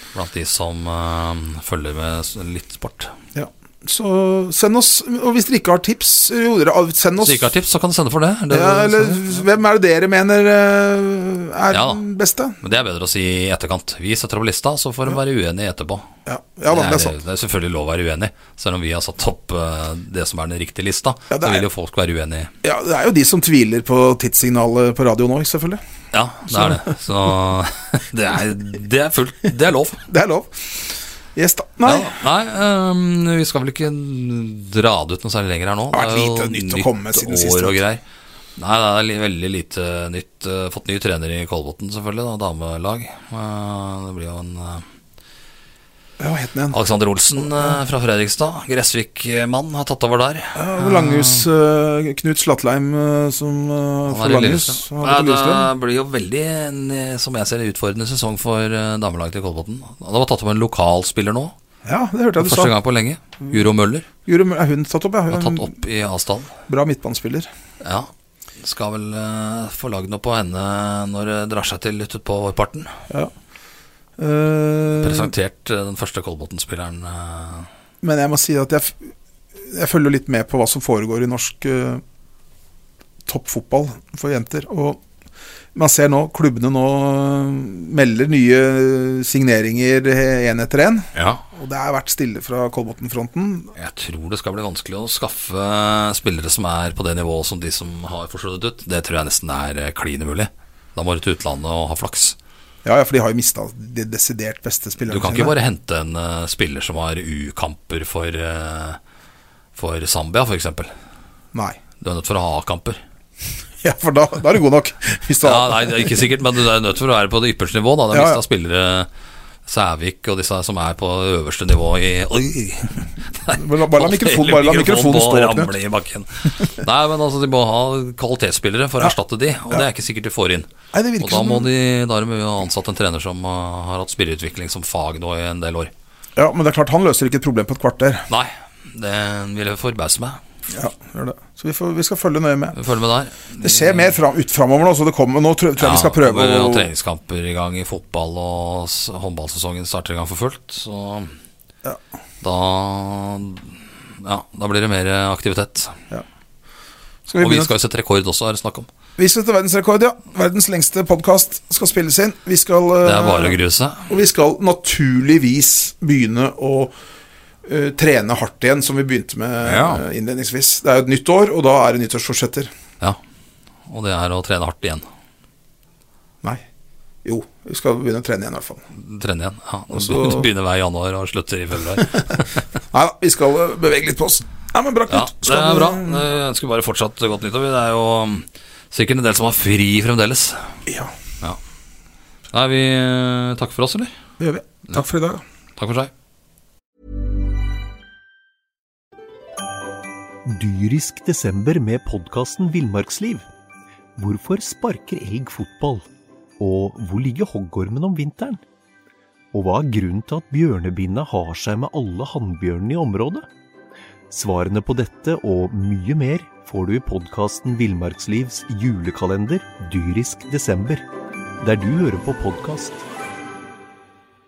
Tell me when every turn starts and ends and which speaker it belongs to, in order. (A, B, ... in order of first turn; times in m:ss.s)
0:00.1-0:03.1 A
0:03.3-0:07.5 B
0:07.2-0:09.4 A
0:08.5-0:12.6 B
0:11.7-0:12.0 A
0:12.6-0:16.1 A
0:16.2-0:17.2 B
0:16.7-0:22.5 A
0:21.3-0:21.6 B
0:22.6-0:25.8 B
0:26.1-0:30.0 A
0:26.5-0:26.9 B
0:30.1-0:32.2 B
0:31.8-0:38.0 A
0:35.9-0:37.8 B
0:38.6-0:44.8 A
0:46.2-0:46.8 B
0:46.7-0:51.4 A
0:47.4-0:47.8 B
0:50.5-0:55.7 B
0:54.1-1:01.5 A
1:01.8-1:02.7 B
1:02.4-1:04.1 A
1:04.2-1:05.7 B
1:05.3-1:06.5 A
1:06.7-1:07.5 B
1:07.8-1:12.9 A
1:14.2-1:15.3 B
1:15.0-1:17.7 A
1:18.0-1:22.0 B
1:23.2-1:25.0 B
1:25.7-1:33.7 B
1:31.1-1:31.4 A
1:33.8-1:42.4 A
1:42.8-1:45.6 B
1:45.1-1:49.0 A
1:49.7-1:50.9 A
1:52.0-1:53.0 A
1:53.8-1:56.3 B
1:55.4-1:59.1 A
1:58.1-1:58.4 B
1:59.6-2:15.9 A
2:03.5-2:05.7 B
2:10.9-2:11.7 B
2:16.4-2:18.3 B
2:18.3-2:20.4 A
2:20.7-2:22.8 B
2:22.7-2:24.2 A
2:23.6-2:26.9 B
2:25.8-2:31.3 A
2:32.4-2:36.0 A
2:37.3-2:37.7 B
2:37.4-2:38.9 A
2:39.2-2:46.9 B
2:43.0-2:44.1 A
2:47.6-2:52.7 B
2:49.6-2:50.0 A
2:53.9-2:55.0 A
2:57.2-2:58.8 B
2:58.9-3:02.6 A
2:59.9-3:00.5 B
3:02.9-3:06.2 B
3:05.1-3:10.7 A
3:10.9-3:11.1 B
3:12.5-3:14.1 A
3:14.4-3:15.4 B
3:15.8-3:16.1 A
3:20.4-3:23.4 C
3:24.2-3:26.0 C
3:26.6-3:28.6 C
3:29.5-3:33.4 C
3:34.3-3:41.0 C
3:41.6-3:43.0 C